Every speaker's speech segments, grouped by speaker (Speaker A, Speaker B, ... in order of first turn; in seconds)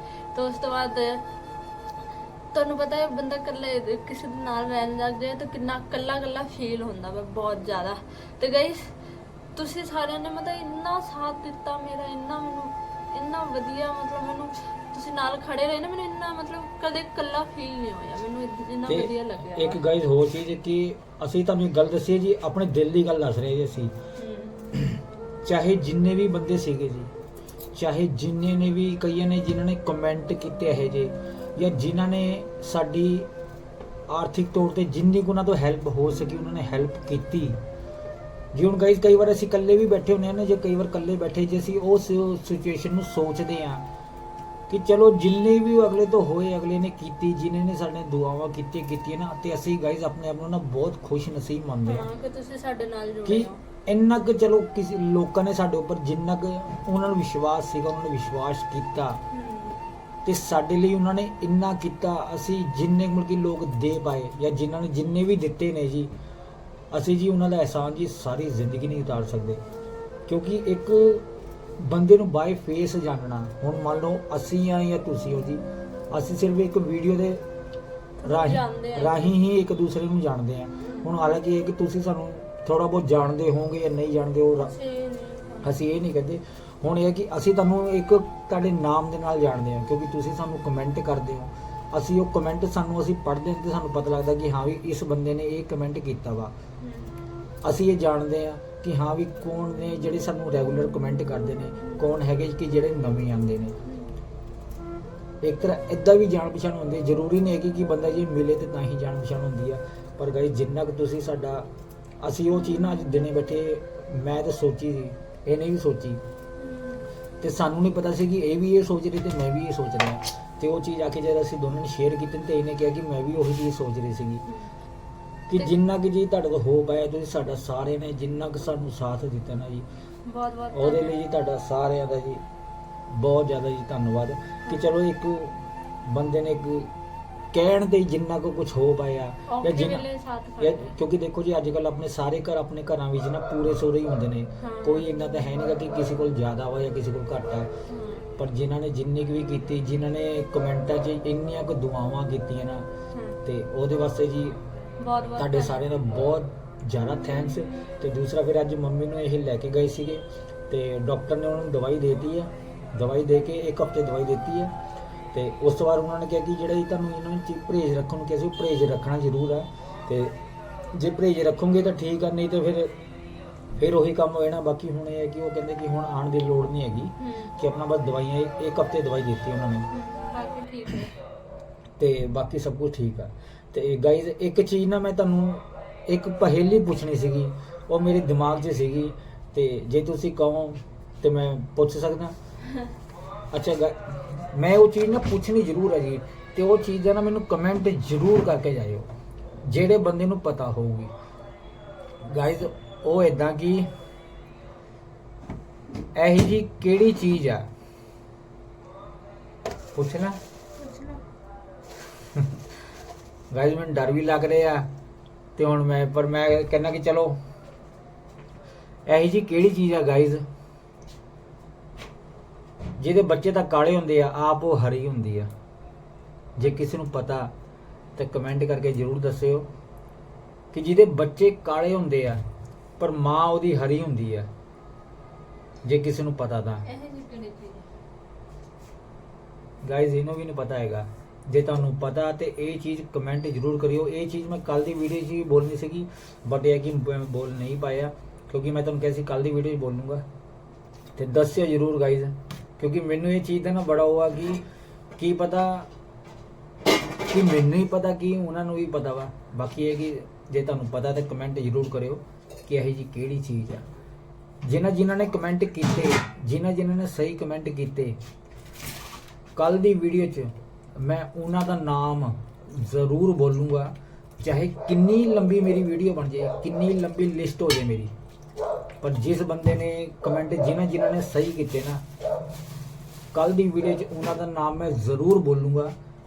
Speaker A: 0.3-1.2, 2.5-8.9, 9.5-19.8, 24.2-24.6, 51.8-53.6, 59.3-59.8, 78.2-79.3, 80.8-81.1, 84.6-85.8, 96.8-97.1, 103.8-104.1, 116.6-117.0, 130.3-131.2, 134.6-134.9, 139.5-140.9, 144.6-145.1, 147.9-148.2, 153.1-153.4, 155.0-155.8, 177.2-177.5, 179.9-181.1, 210.8-211.2, 236.8-237.9
Speaker B: 18.9-23.9, 24.7-27.1, 27.7-33.3, 34.1-37.6, 38.5-43.8, 44.7-52.1, 53.2-59.2, 60.2-66.1, 66.9-69.6, 70.3-71.3, 71.8-77.4, 78.2-84.7, 85.6-96.5, 97.6-103.7, 105.4-111.7, 112.2-116.2, 117.4-124.4, 125.5-129.8, 130.7-132.4, 133.1-136.9, 137.5-140.1, 140.6-147.7, 148.4-152.9, 153.4-154.6, 155.3-164.7, 165.3-170.3, 170.9-172.9, 173.8-179.9, 182.0-192.3, 193.5-199.1, 199.6-201.1, 202.2-203.9, 206.1-207.7, 209.9-210.4, 213.5-214.9, 215.6-217.4, 219.1-220.4, 223.0-225.5, 226.6-227.5, 228.2-229.7, 230.7-232.4, 233.0-234.5, 235.8-236.8, 239.8-250.2, 251.2-254.6, 255.2-255.9, 257.2-263.8, 264.6-268.2, 269.6-278.1, 279.0-282.0, 283.3-285.9